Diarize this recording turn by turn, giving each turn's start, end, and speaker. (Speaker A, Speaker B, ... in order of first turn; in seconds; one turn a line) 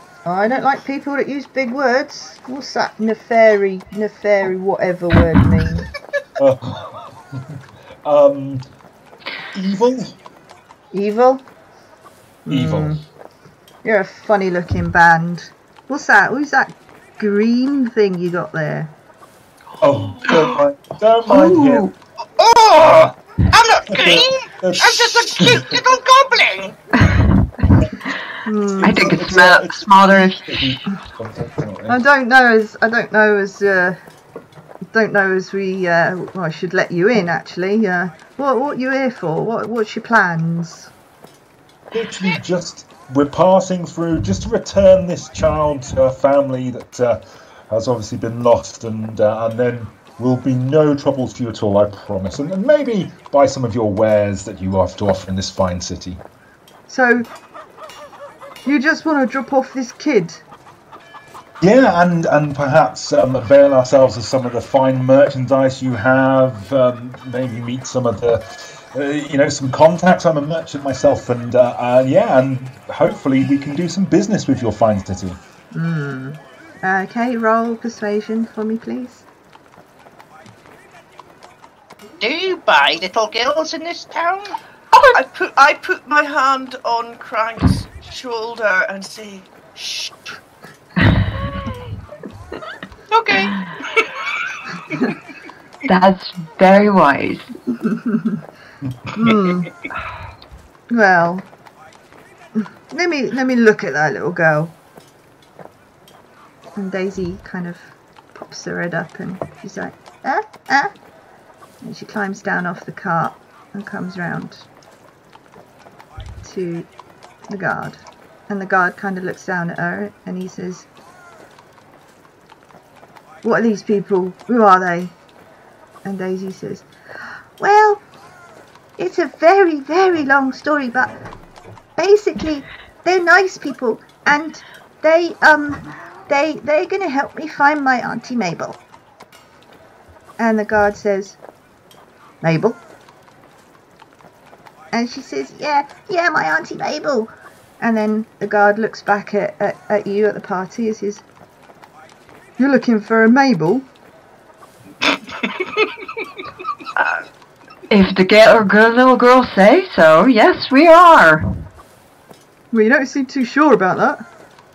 Speaker A: 0.2-5.9
Speaker B: 6.4-8.7
Speaker B: 9.5-10.2
Speaker A: 10.9-11.4
Speaker A: 12.5-13.0
Speaker B: 12.5-13.0
Speaker A: 13.8-18.9
Speaker B: 19.8-21.9
Speaker C: 21.3-21.9
Speaker D: 22.4-26.8
Speaker B: 22.8-23.2
Speaker B: 23.9-25.8
Speaker C: 26.9-27.9
Speaker A: 28.4-29.4
Speaker B: 28.7-32.0
Speaker C: 28.8-30.8
Speaker A: 31.9-34.0
Speaker A: 34.9-40.9
Speaker B: 41.9-56.2
Speaker A: 56.9-57.3
Speaker A: 58.7-60.4
Speaker B: 61.6-75.4
Speaker A: 75.7-79.3
Speaker D: 82.2-84.5
Speaker E: 84.9-90.3
Speaker D: 93.1-94.2
Speaker C: 95.9-97.5
Speaker A: 97.8-98.4
Speaker A: 99.2-99.7
Speaker A: 100.9-101.5
Speaker A: 102.6-104.8
Speaker A: 106.8-110.9
Speaker A: 111.8-114.7
Speaker A: 116.4-116.9
Speaker A: 117.5-120.9
Speaker A: 123.4-125.1
Speaker A: 126.0-126.9
Speaker A: 127.6-128.0
Speaker A: 129.0-131.2
Speaker A: 132.0-138.8
Speaker A: 140.4-141.4
Speaker A: 142.4-142.8
Speaker A: 144.9-151.2
Speaker A: 152.6-153.9
Speaker D: 155.1-155.9
Speaker C: 157.9-161.5
Speaker A: 162.7-164.2